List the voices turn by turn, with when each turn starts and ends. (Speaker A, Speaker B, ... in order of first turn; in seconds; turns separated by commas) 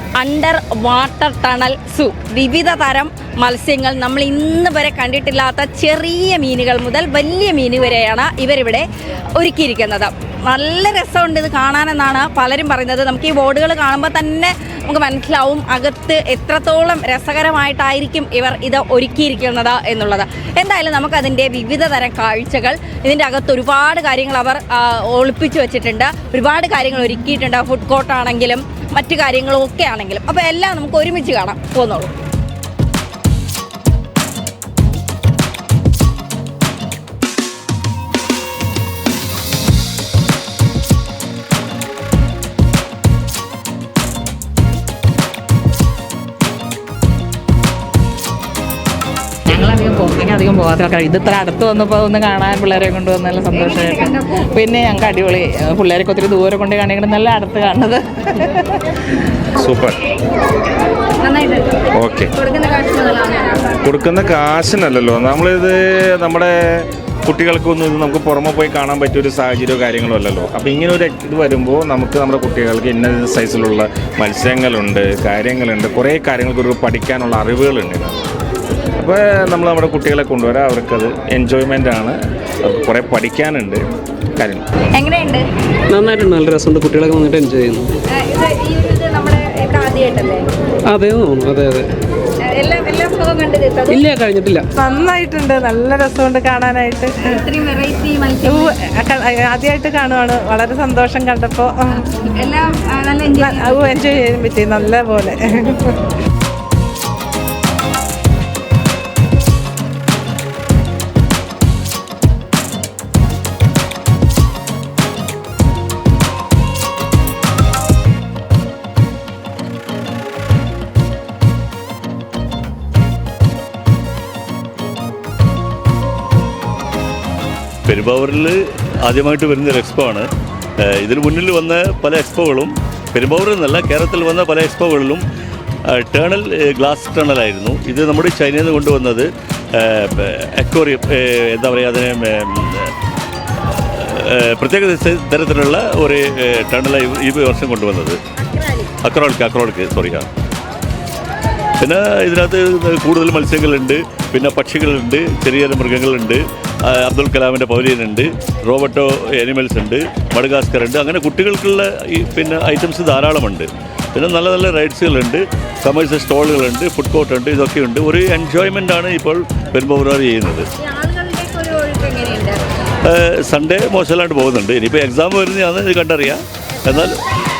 Speaker A: 0.2-32.1, Speaker B: 49.5-58.7, Speaker C: 59.6-60.0, Speaker A: 61.2-63.8, Speaker C: 62.0-62.3, Speaker C: 63.8-78.2, Speaker C: 79.0-83.8, Speaker C: 84.4-84.6, Speaker A: 84.9-85.4, Speaker D: 85.9-87.9, Speaker A: 88.1-90.5, Speaker D: 90.9-91.9, Speaker A: 92.4-94.0, Speaker D: 93.9-94.7, Speaker E: 94.7-97.4, Speaker A: 97.2-98.7, Speaker E: 98.5-102.0, Speaker A: 102.1-103.8, Speaker E: 103.4-105.9, Speaker F: 127.8-130.3, Speaker F: 130.8-135.2, Speaker F: 135.9-142.9, Speaker F: 143.7-148.2, Speaker F: 149.0-150.3, Speaker F: 151.8-170.7, Speaker A: 170.8-172.6, Speaker F: 173.0-177.2